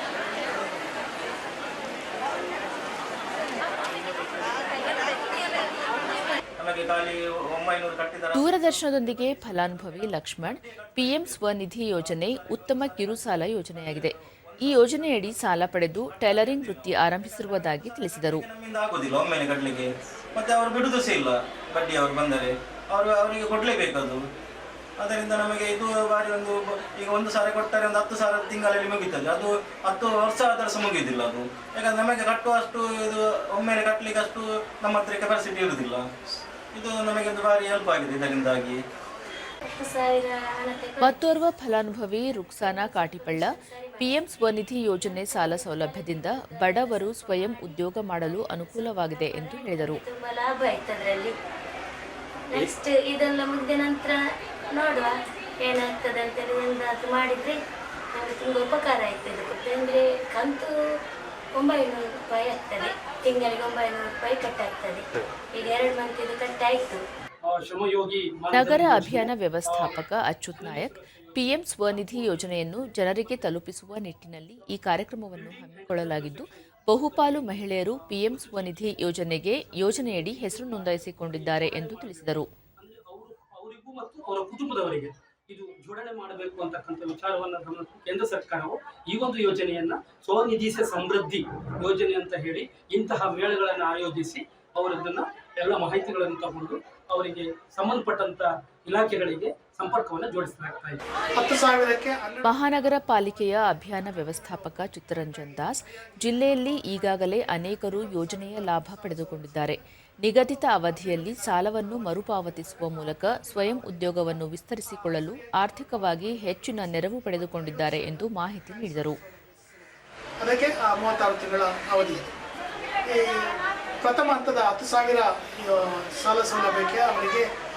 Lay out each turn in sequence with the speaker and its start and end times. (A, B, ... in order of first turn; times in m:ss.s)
0:04.2-0:04.9 A
0:06.6-0:11.4 A
0:08.3-0:18.4 B
0:12.0-0:15.3 A
0:16.1-0:24.3 A
0:25.0-0:36.1 A
0:36.7-0:38.8 A
0:39.6-0:41.3 C
0:41.0-0:50.0 B
0:42.5-0:47.8 C
0:48.5-0:51.3 C
0:52.5-0:54.2 C
0:54.7-0:57.6 C
0:58.1-1:00.7 C
1:01.6-1:07.0 C
1:07.4-1:10.0 D
1:08.5-1:22.5 B
1:10.6-1:13.6 D
1:15.2-1:41.0 D
1:41.4-1:42.6 E
1:42.4-1:59.2 B
2:00.4-2:02.3 E
2:03.0-2:07.5 E